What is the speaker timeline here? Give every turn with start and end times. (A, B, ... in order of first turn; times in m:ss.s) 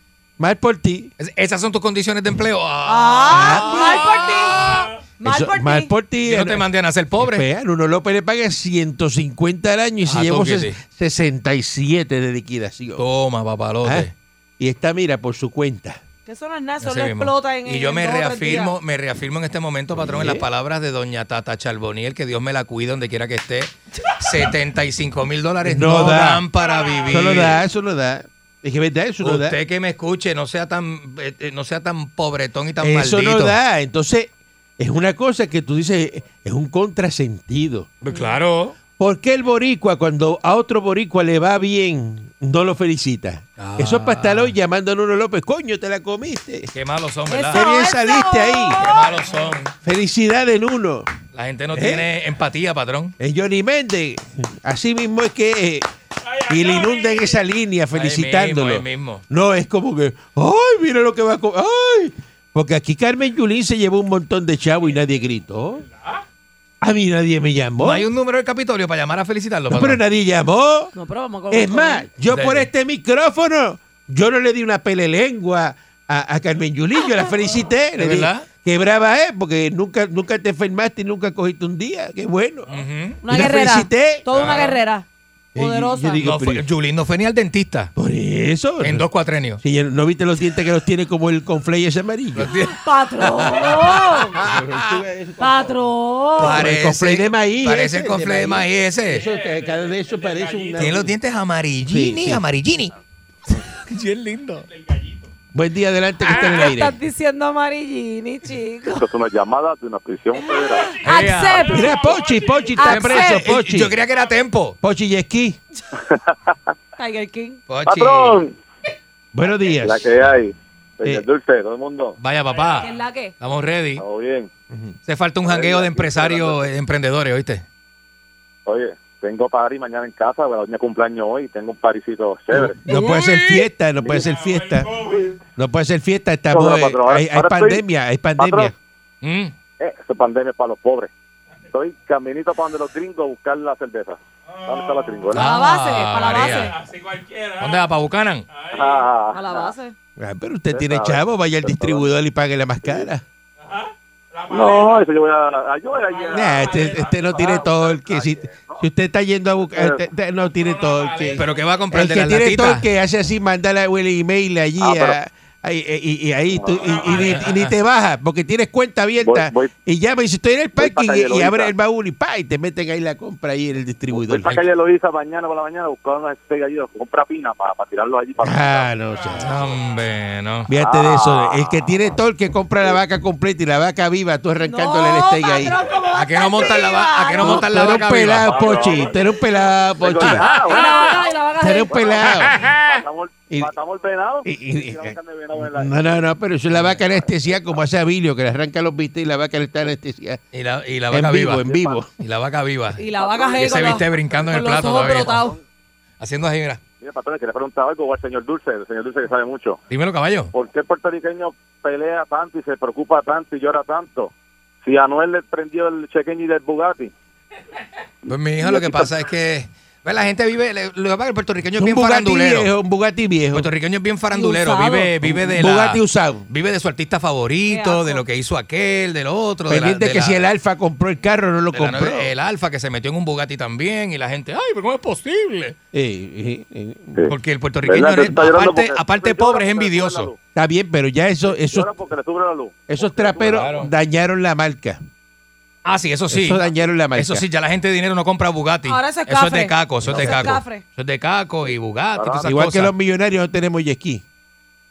0:00.4-0:01.1 A
0:01.2-0:05.0 B
0:02.8-0:05.9 C
0:03.3-0:04.1 A
0:05.2-0:06.7 A
0:06.2-0:07.4 B
0:07.2-0:13.0 A
0:10.1-0:10.8 B
0:13.0-0:14.1 B
0:13.8-0:16.0 A
0:16.3-0:18.7 C
0:16.8-0:27.6 B
0:20.0-0:20.5 A
0:25.6-0:26.4 A
0:26.6-0:27.4 D
0:27.1-0:29.6 A
0:29.2-0:33.6 B
0:32.8-0:37.9 A
0:38.0-0:38.8 B
0:39.0-0:46.7 A
0:43.6-0:44.6 B
0:46.7-0:47.6 B
0:47.3-0:49.1 C
0:47.5-0:48.8 A
0:48.8-0:49.7 B
0:49.8-0:51.2 A
0:51.3-0:53.1 B
0:51.7-0:52.1 A
0:53.2-1:05.9 A
0:56.3-0:57.4 D
0:57.9-0:59.2 B
1:06.8-1:08.1 A
1:07.8-1:10.0 B
1:09.7-1:10.9 A
1:11.0-1:12.1 C
1:11.5-1:24.7 A
1:12.3-1:12.7 B
1:18.0-1:18.5 B
1:22.7-1:23.2 B
1:23.2-1:26.2 C
1:24.3-1:24.8 B
1:25.6-1:26.7 A
1:26.2-1:27.9 B
1:28.0-1:29.1 A
1:28.8-1:29.6 B
1:29.6-1:32.5 A
1:32.4-1:35.0 B
1:32.8-1:34.4 C
1:34.3-1:35.8 A
1:35.4-1:36.6 C
1:36.4-1:41.1 A
1:36.4-1:39.3 B
1:39.2-1:41.0 D
1:40.8-1:42.9 B
1:41.9-1:42.4 A
1:43.6-1:44.7 B
1:44.7-1:45.3 D
1:45.5-1:47.0 A
1:46.2-1:49.1 C
1:48.9-1:51.0 E
1:50.4-1:52.0 C
1:50.9-1:52.8 D
1:51.0-1:51.8 B
1:51.5-1:54.0 A
1:52.8-1:53.4 C
1:52.8-1:54.8 B
1:54.8-1:55.6 A
1:56.0-1:56.7 E
1:57.0-1:57.6 C
1:57.7-1:58.4 B
1:57.8-1:58.6 E
1:59.3-2:00.2 A
1:59.8-2:02.2 E
2:02.2-2:04.0 B
2:02.5-2:02.9 D
2:02.8-2:03.3 C
2:04.0-2:04.5 E
2:04.7-2:05.0 A
2:05.1-2:07.6 B
2:05.4-2:06.7 E
2:08.7-2:12.8 E
2:12.5-2:18.7 A
2:12.9-2:13.7 B
2:14.0-2:14.3 E
2:14.1-2:15.3 D
2:16.5-2:17.8 E
2:18.4-2:18.7 E
2:19.2-2:19.5 B
2:19.8-2:21.1 E
2:21.7-2:25.5 E
2:24.5-2:25.2 D
2:25.3-2:26.8 C
2:25.3-2:26.8 B
2:26.3-2:27.9 D
2:27.6-2:28.5 B
2:28.5-2:29.1 D
2:28.7-2:29.7 E
2:29.3-2:29.9 C
2:30.2-2:33.2 A
2:30.7-2:32.1 E
2:33.6-2:35.0 D
2:34.5-2:38.9 E
2:36.1-2:37.2 D
2:36.3-2:54.6 A
2:39.7-2:40.0 E
2:40.6-2:41.7 D
2:41.3-2:42.8 B
2:44.8-2:45.2 E
2:46.5-2:47.1 E
2:46.8-2:47.4 D
2:47.2-2:47.7 B
2:49.2-2:49.7 E
2:50.8-2:51.7 E
2:54.1-2:58.9 E
2:58.4-2:59.7 A
2:59.2-3:00.0 D
2:59.4-3:00.7 B
3:00.7-3:05.8 A
3:00.7-3:02.0 E
3:04.6-3:08.0 C
3:06.1-3:08.9 B
3:07.4-3:10.5 A
3:08.4-3:09.2 E
3:09.9-3:16.2 E
3:10.2-3:10.8 B
3:10.6-3:12.2 C
3:11.6-3:12.6 A
3:12.2-3:12.9 B
3:14.4-3:20.4 A
3:16.7-3:17.0 B
3:17.4-3:17.8 E
3:20.5-3:23.0 B
3:21.1-3:22.1 A
3:21.7-3:22.0 E
3:23.0-3:25.6 C
3:23.2-3:25.6 E
3:23.6-3:25.5 B
3:26.2-3:26.8 B
3:27.0-3:29.8 E
3:29.9-3:30.5 B
3:30.5-3:34.3 E
3:34.8-3:37.1 E
3:38.3-3:42.7 B
3:38.6-3:39.1 E
3:41.8-3:43.7 A
3:43.5-3:50.4 B
3:44.3-3:45.1 C
3:45.2-3:46.5 A
3:47.7-3:48.2 C
3:49.7-3:52.3 A
3:51.8-3:55.8 B
3:55.9-3:57.3 A
3:57.2-4:00.4 E
3:57.3-4:00.3 B
4:00.6-4:01.9 A
4:01.4-4:03.8 E
4:02.9-4:05.0 A
4:03.4-4:03.9 B
4:05.8-4:06.6 B
4:06.3-4:07.4 A
4:07.2-4:12.9 B
4:08.9-4:10.8 C
4:10.0-4:10.3 A
4:10.0-4:10.4 E
4:11.6-4:12.5 E
4:12.4-4:14.2 A